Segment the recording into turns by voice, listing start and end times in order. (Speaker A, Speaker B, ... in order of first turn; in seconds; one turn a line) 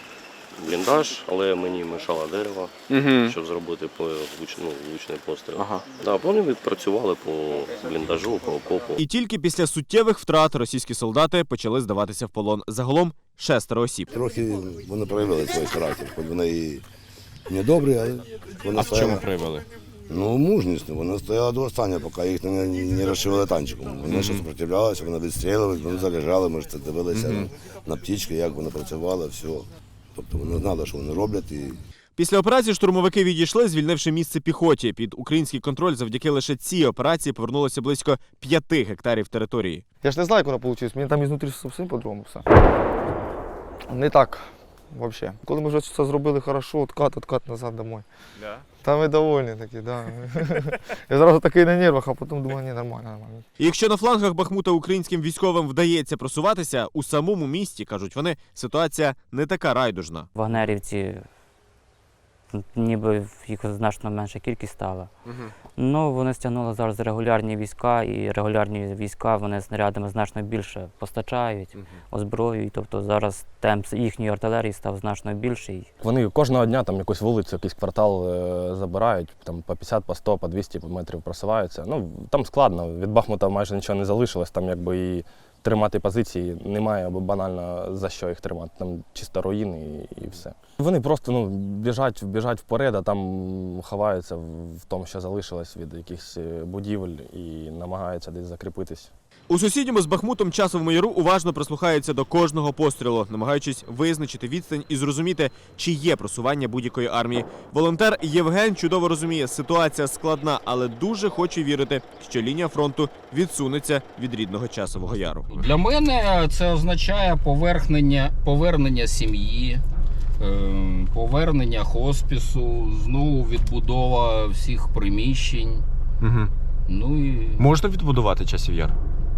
Speaker A: 0.6-9.0
Speaker B: 9.0-14.1
Speaker C: 14.1-16.9
Speaker C: 17.5-19.3
Speaker B: 18.8-19.6
Speaker C: 20.1-31.8
Speaker B: 24.1-24.4
Speaker B: 32.2-39.8
Speaker D: 40.0-42.5
Speaker D: 43.9-48.1
Speaker D: 48.8-53.5
Speaker B: 53.6-60.3
Speaker E: 60.4-61.2
Speaker E: 62.5-65.1
Speaker E: 65.8-75.9
Speaker F: 76.0-99.1
Speaker B: 99.5-115.6
Speaker G: 115.5-119.8
Speaker G: 120.4-125.9
Speaker B: 126.2-126.5
Speaker G: 126.9-127.7
Speaker B: 127.6-128.9